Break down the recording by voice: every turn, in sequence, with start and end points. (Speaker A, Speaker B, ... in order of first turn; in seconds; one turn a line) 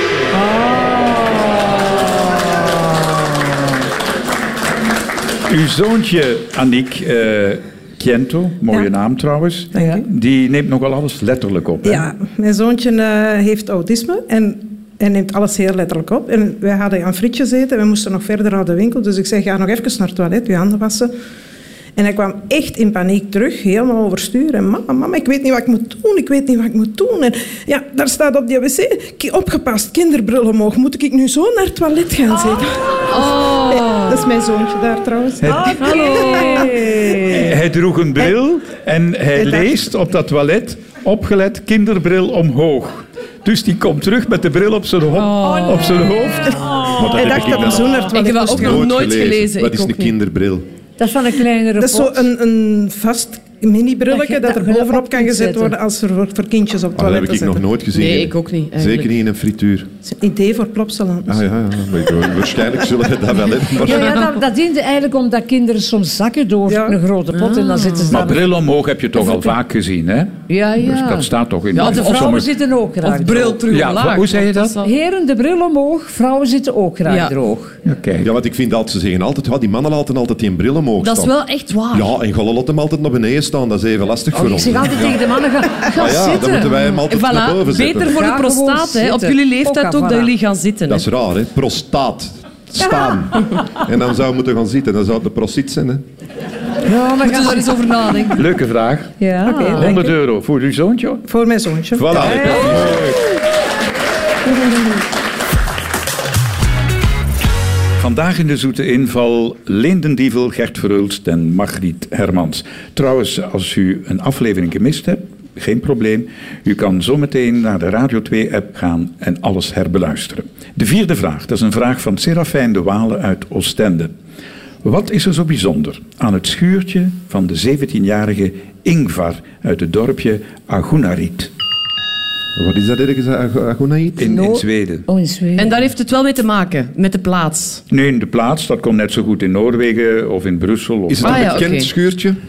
Speaker A: 0.3-2.7
Speaker B: 5.5-12.1
Speaker C: 9.7-10.1
Speaker C: 11.8-21.1
Speaker C: 22.0-37.5
Speaker D: 33.1-34.2
Speaker B: 35.4-36.2
Speaker A: 35.5-37.4
Speaker D: 36.0-36.5
Speaker B: 37.1-46.6
Speaker C: 39.4-39.7
Speaker D: 45.2-46.1
Speaker A: 45.4-47.1
Speaker C: 46.5-48.9
Speaker E: 47.0-50.6
Speaker D: 48.1-50.1
Speaker A: 51.0-52.2
Speaker C: 51.8-57.6
Speaker A: 54.1-55.8
Speaker E: 57.0-59.9
Speaker D: 57.9-59.1
Speaker C: 60.0-61.4
Speaker E: 61.3-64.2
Speaker A: 63.8-68.4
Speaker C: 66.7-67.0
Speaker D: 67.3-68.2
Speaker B: 68.1-72.5
Speaker A: 70.5-73.6
Speaker D: 71.7-72.4
Speaker D: 73.0-74.9
Speaker B: 73.7-74.8
Speaker A: 74.8-77.8
Speaker D: 77.1-77.3
Speaker B: 77.8-78.3
Speaker E: 78.2-81.3
Speaker D: 81.0-82.1
Speaker E: 81.9-85.2
Speaker A: 84.3-86.8
Speaker E: 85.8-88.1
Speaker D: 87.0-91.0
Speaker A: 88.1-90.3
Speaker E: 90.9-96.0
Speaker A: 96.9-97.7
Speaker D: 97.2-98.5
Speaker B: 98.3-99.2
Speaker A: 99.2-100.0
Speaker C: 99.5-100.1
Speaker B: 99.8-101.2
Speaker C: 101.3-102.3
Speaker E: 102.0-103.1
Speaker B: 102.0-103.2
Speaker B: 108.0-124.1
Speaker B: 124.8-131.5
Speaker E: 132.6-134.3
Speaker B: 134.2-135.1
Speaker A: 134.2-135.7
Speaker D: 135.6-137.8
Speaker B: 137.9-141.6
Speaker E: 141.1-142.4
Speaker D: 141.2-141.9